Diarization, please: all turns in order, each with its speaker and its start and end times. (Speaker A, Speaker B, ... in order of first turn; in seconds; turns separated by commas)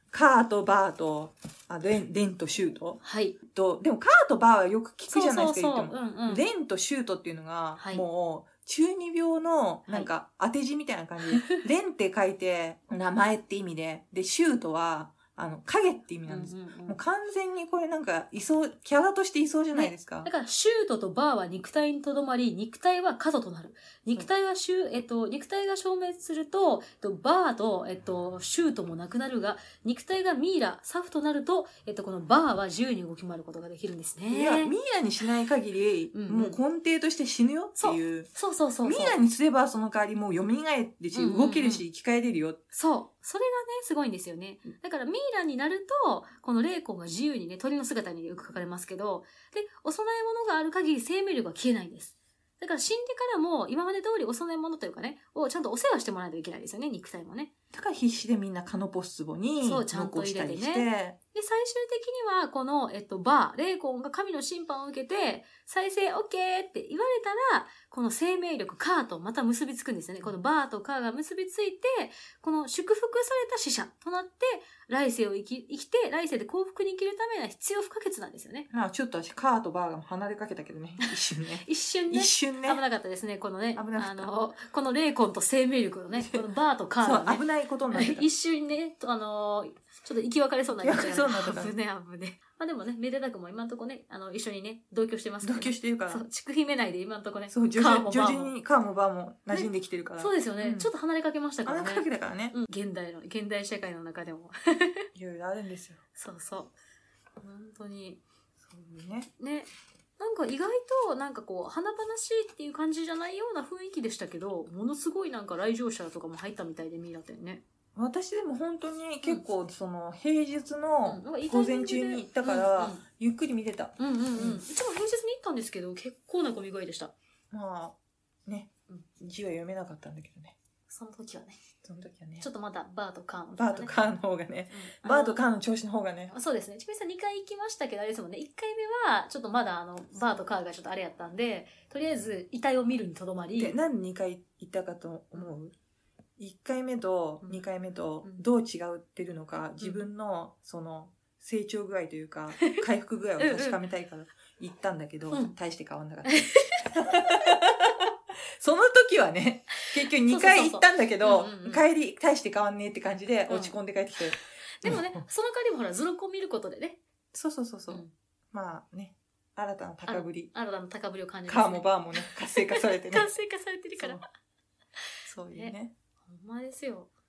Speaker A: 0.1-20.3, Speaker B: 3.0-3.4, Speaker B: 5.1-6.5, Speaker B: 7.8-8.1, Speaker B: 11.3-11.6, Speaker B: 16.3-17.0, Speaker B: 19.8-34.7, Speaker A: 34.3-38.3, Speaker B: 36.1-36.6, Speaker B: 37.8-39.2, Speaker A: 38.9-42.6, Speaker B: 41.1-41.8, Speaker B: 42.7-57.5, Speaker A: 57.7-61.2, Speaker B: 59.6-78.7, Speaker A: 78.7-82.8, Speaker B: 81.6-98.5, Speaker A: 83.8-84.3, Speaker A: 87.0-88.3, Speaker A: 90.8-91.7, Speaker A: 95.4-96.2, Speaker A: 97.5-100.9, Speaker B: 99.5-105.1, Speaker A: 101.7-102.5, Speaker A: 105.2-106.0, Speaker B: 106.2-106.7, Speaker B: 107.4-108.2, Speaker A: 108.6-109.3, Speaker B: 109.4-109.7, Speaker B: 110.2-117.6, Speaker A: 118.0-124.6, Speaker B: 121.0-123.0, Speaker B: 124.0-127.1, Speaker A: 127.5-130.6, Speaker B: 130.9-131.6, Speaker A: 131.8-132.5, Speaker B: 132.4-133.9, Speaker A: 133.6-136.3, Speaker B: 134.7-135.4, Speaker B: 136.3-143.8, Speaker A: 143.6-145.7, Speaker A: 146.4-158.1, Speaker B: 149.8-150.1, Speaker B: 153.4-153.8, Speaker B: 156.3-157.3, Speaker A: 158.6-165.0, Speaker B: 160.3-161.8, Speaker B: 163.5-163.8, Speaker B: 164.8-167.0, Speaker A: 167.3-170.5, Speaker B: 170.1-174.2, Speaker A: 171.5-173.3, Speaker A: 174.0-174.2, Speaker A: 175.3-175.9, Speaker B: 176.3-177.1